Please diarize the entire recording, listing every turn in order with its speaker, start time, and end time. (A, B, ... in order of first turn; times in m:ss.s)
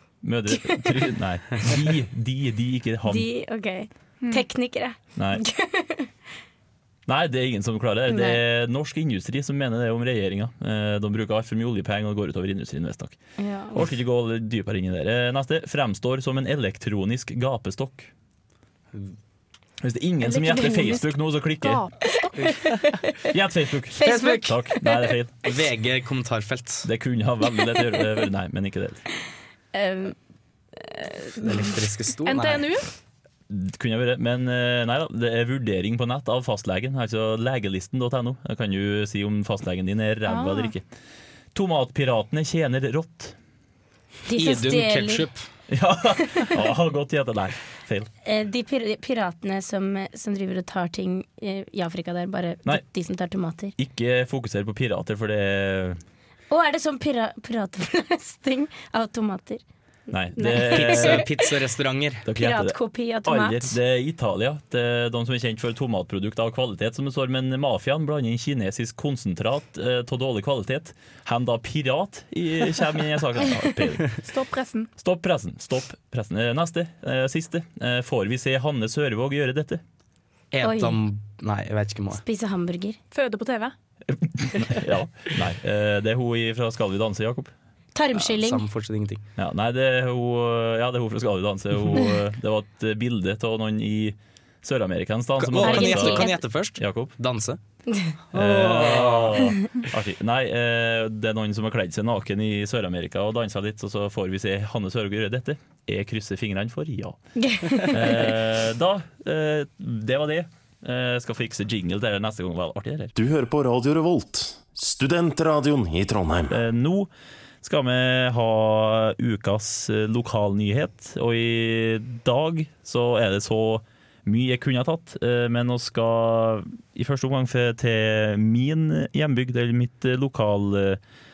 0:00.2-0:03.2 A
0:00.5-0:01.1 B
0:03.0-0:06.1 B
0:05.2-0:05.4 A
0:07.1-0:13.2 A
0:08.1-0:08.4 B
0:13.4-0:13.9 B
0:13.7-0:18.1 A
0:19.8-0:21.8 A
0:20.2-0:21.1 B
0:21.6-0:22.5 C
0:22.0-0:23.2 B
0:23.2-0:25.3 A
0:24.0-0:25.0 B
0:24.0-0:24.4 D
0:25.4-0:26.9 D
0:26.8-0:29.0 A
0:29.7-0:30.2 B
0:30.8-0:31.6 B
0:31.4-0:32.7 D
0:32.2-0:32.9 C
0:33.5-0:40.8 A
0:40.2-0:40.7 C
0:41.5-0:43.3 A
0:44.3-0:45.3 B
0:44.3-0:45.4 D
0:45.7-0:48.1 A
0:48.2-0:53.7 B
0:53.8-0:56.0 A
0:56.5-0:59.6 B
1:00.1-1:01.3 A
1:00.3-1:01.2 B
1:00.6-1:02.2 D
1:02.2-1:14.2 A
1:02.4-1:03.8 B
1:14.2-1:14.9 C
1:15.0-1:19.8 A
1:20.5-1:22.2 D
1:20.6-1:21.0 B
1:22.1-1:23.0 B
1:23.1-1:23.7 C
1:24.1-1:27.5 A
1:27.9-1:28.6 B
1:28.1-1:29.2 D
1:29.4-1:36.2 A
1:35.4-1:37.6 D
1:35.6-1:36.4 B
1:36.8-1:37.1 A
1:38.3-1:39.4 D
1:38.3-1:47.2 A
1:47.4-1:48.2 B
1:47.7-1:53.1 A
1:53.1-1:56.6 E
1:56.5-1:57.1 A
1:57.6-2:11.0 A